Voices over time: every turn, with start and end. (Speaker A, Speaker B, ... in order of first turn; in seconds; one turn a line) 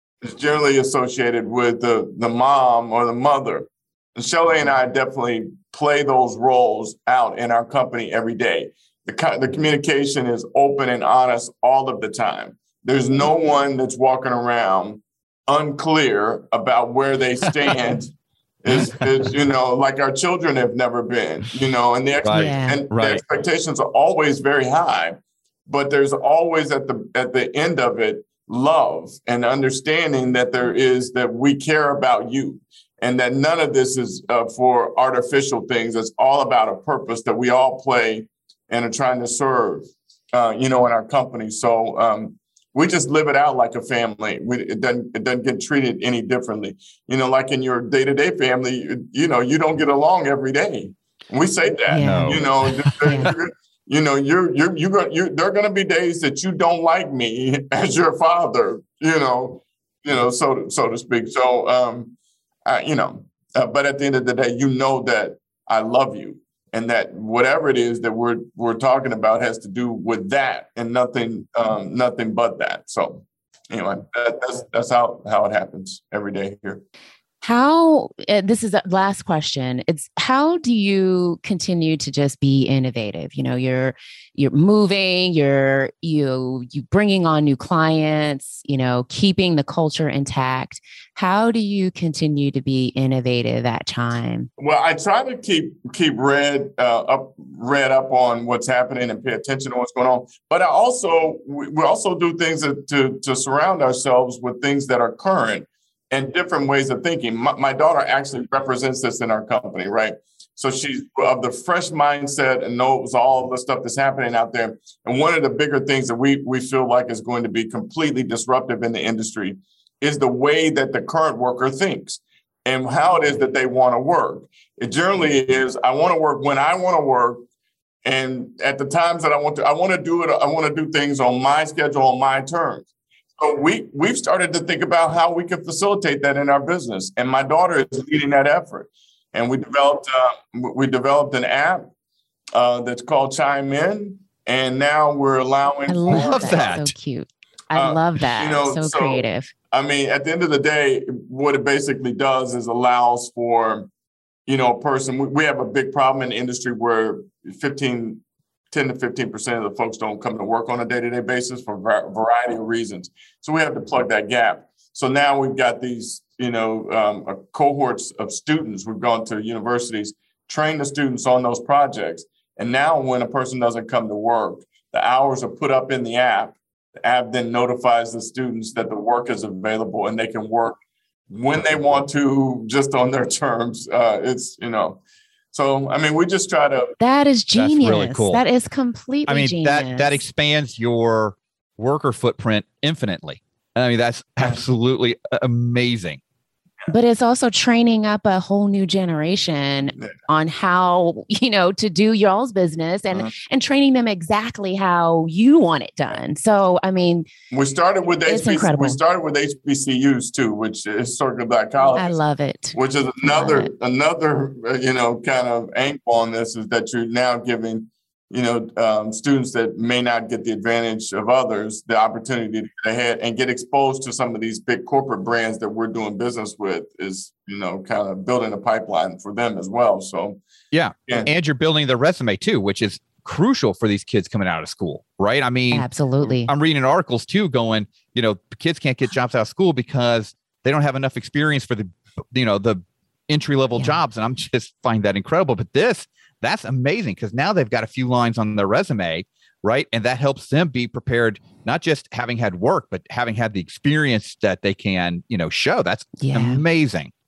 Speaker A: 0.2-62.1
Speaker B: 22.2-23.2
Speaker C: 22.3-22.8
Speaker C: 51.9-53.3
Speaker B: 52.0-53.3
Speaker A: 62.7-76.8
Speaker C: 77.4-94.5
Speaker A: 94.6-127.4
Speaker A: 128.1-141.9
Speaker A: 142.6-146.7
Speaker C: 145.9-149.5
Speaker B: 146.1-146.9
Speaker A: 147.7-153.9
Speaker A: 154.5-185.0
Speaker A: 185.5-186.9
Speaker C: 187.0-190.2
Speaker B: 187.6-188.4
Speaker B: 189.3-196.2
Speaker C: 196.9-207.3
Speaker A: 207.5-212.2
Speaker C: 208.3-209.0
Speaker C: 211.9-213.7
Speaker A: 212.7-230.4
Speaker B: 230.7-257.1
Speaker C: 235.7-236.5
Speaker C: 256.2-256.6